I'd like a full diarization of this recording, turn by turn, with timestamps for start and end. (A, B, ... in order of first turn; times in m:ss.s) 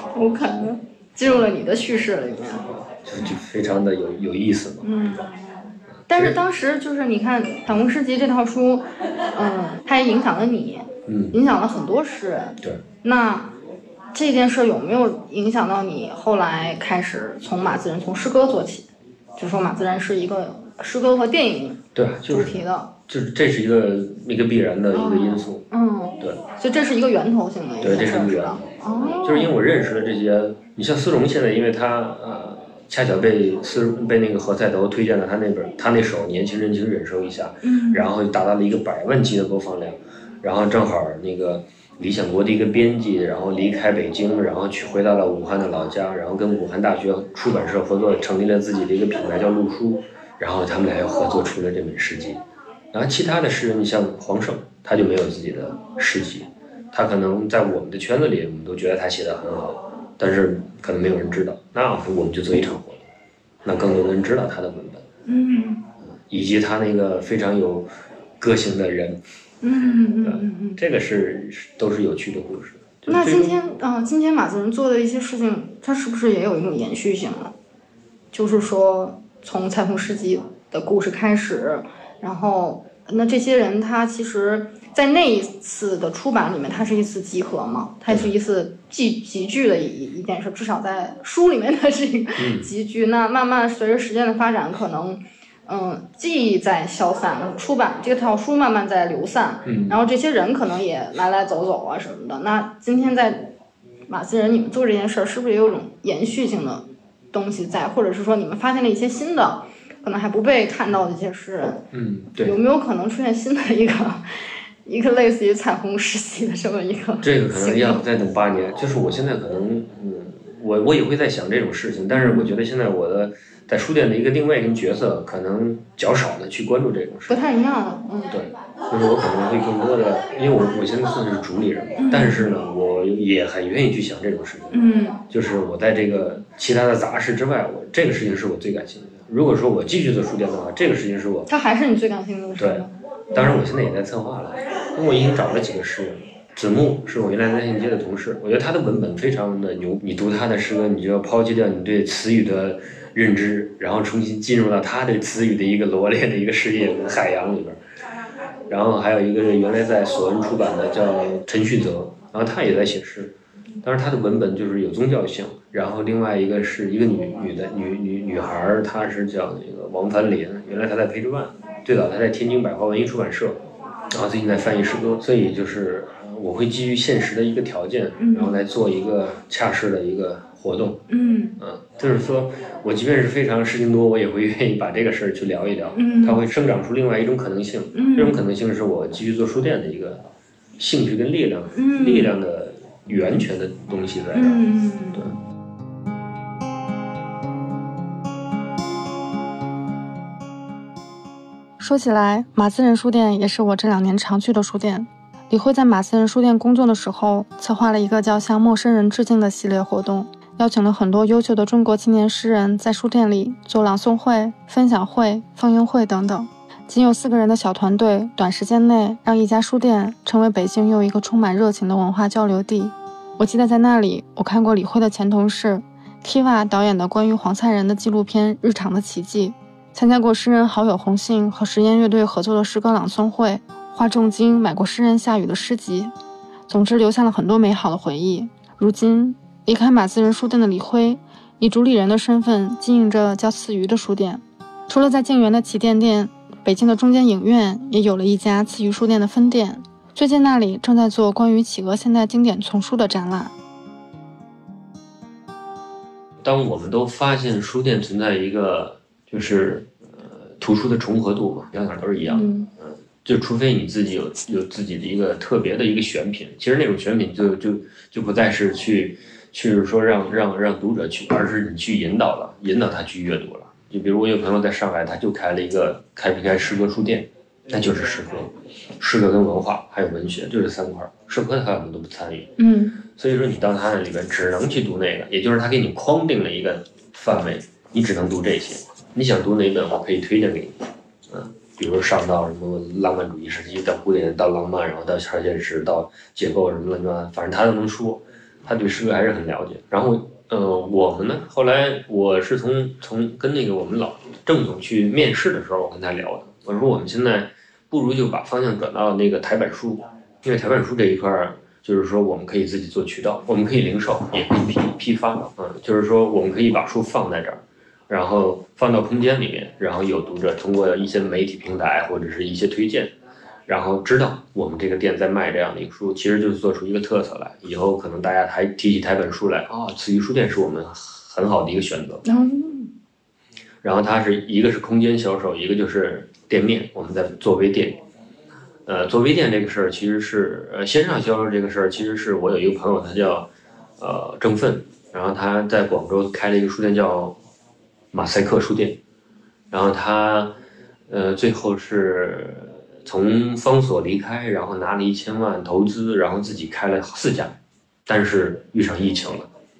0:00.1-0:02.6 A
0:01.2-0:01.5 B
0:03.0-0:05.2 B
0:04.8-0:05.4 A
0:06.1-0:06.4 B
0:06.1-0:08.8 A
0:09.4-0:13.5 A
0:11.0-0:11.4 B
0:14.1-0:18.8 A
0:19.4-0:21.8 A
0:21.9-0:25.6 B
0:22.3-0:22.9 A
0:24.9-0:29.5 A
0:27.8-0:52.4 B
0:37.6-0:38.1 A
0:52.9-1:03.0 B
1:03.6-1:05.0 B
1:05.2-1:05.8 A
1:06.0-1:07.9 B
1:08.4-1:09.2 B
1:09.6-1:10.8 A
1:10.2-1:13.5 B
1:13.1-1:17.5 A
1:18.3-1:43.5 A
1:32.4-1:32.7 B
1:39.6-1:40.0 B
1:44.1-1:51.8 A
1:51.9-1:52.6 B
1:52.4-1:54.2 A
1:54.8-1:58.0 A
1:57.2-2:07.5 B
2:02.1-2:02.5 A
2:07.3-2:08.3 A
2:08.3-2:21.5 B
2:12.0-2:12.5 A
2:14.7-2:15.2 A
2:21.5-2:23.6 A
2:22.6-2:37.8 B
2:38.7-2:53.6 B
2:54.1-3:01.0 B
2:58.2-2:58.6 A
3:01.1-3:01.6 A
3:01.6-3:10.2 B
3:06.0-3:06.4 A
3:07.9-3:08.4 A
3:10.8-3:15.3 B
3:11.7-3:12.3 A
3:14.3-3:15.2 A
3:21.8-3:56.1 A
3:56.7-4:13.5 A
4:16.4-4:50.8 B
4:22.3-4:22.7 A
4:42.6-4:43.0 A
4:51.3-5:23.1 B
5:23.7-5:32.2 B
5:32.2-5:32.9 A
5:33.8-5:38.0 B
5:38.8-5:43.5 B
5:44.0-5:47.4 B
5:48.1-5:49.0 B
5:49.7-5:50.6 B
5:51.1-5:59.5 B